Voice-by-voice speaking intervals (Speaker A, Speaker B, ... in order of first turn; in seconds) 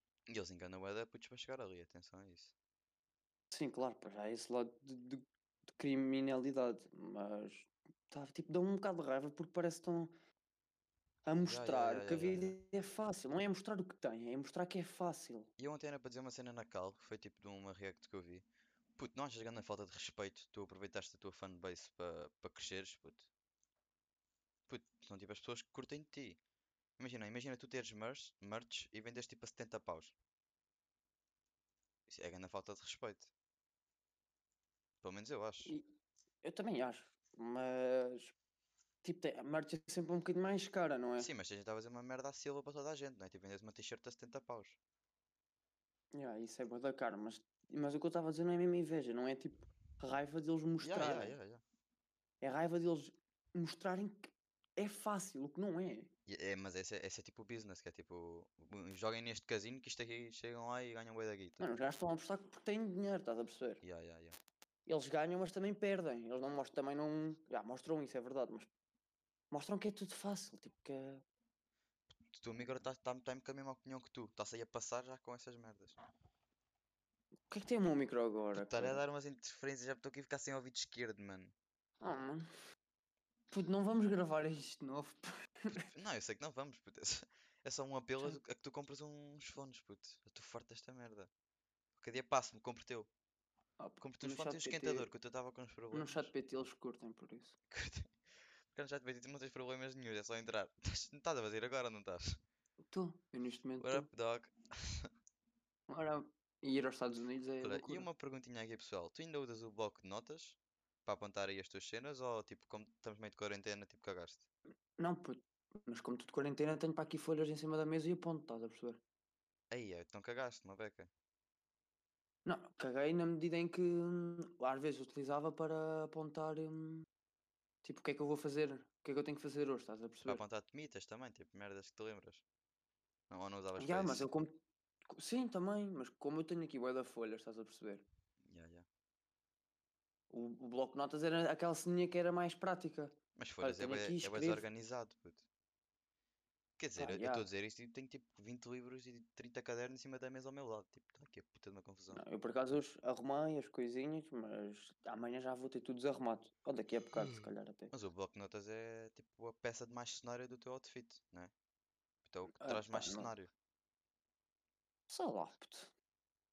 Speaker A: 0.3-2.5, 11.5-12.6, 15.6-23.3, 24.7-26.4, 27.0-30.1, 32.1-33.3, 35.0-35.7, 41.2-44.8, 50.8-51.6, 56.3-61.7, 63.8-64.4, 72.3-76.0, 78.5-81.5, 85.7-91.3, 92.0-93.1, 94.0-96.3, 97.7-98.1, 98.7-102.4, 103.8-105.1, 107.6-114.5, 119.7-121.1, 130.2-132.4, 133.3-134.3, 138.4-138.9, 143.4-145.4, 146.8-152.2, 157.9-161.5, 162.2-163.5
Speaker B: 3.5-5.2, 5.8-10.1, 11.2-15.5, 36.4-38.3, 39.0-41.3, 46.1-51.3, 52.4-56.1, 61.6-63.8, 64.9-68.7, 69.5-71.2, 77.5-79.0, 82.0-82.5, 83.5-85.9, 93.8-95.1, 95.9-97.5, 102.9-104.1, 105.9-108.1, 115.0-119.0, 122.4-127.1, 127.8-130.4, 133.8-138.1, 140.3-144.7, 147.0-147.5, 152.1-157.9, 162.6-163.3, 165.1-165.9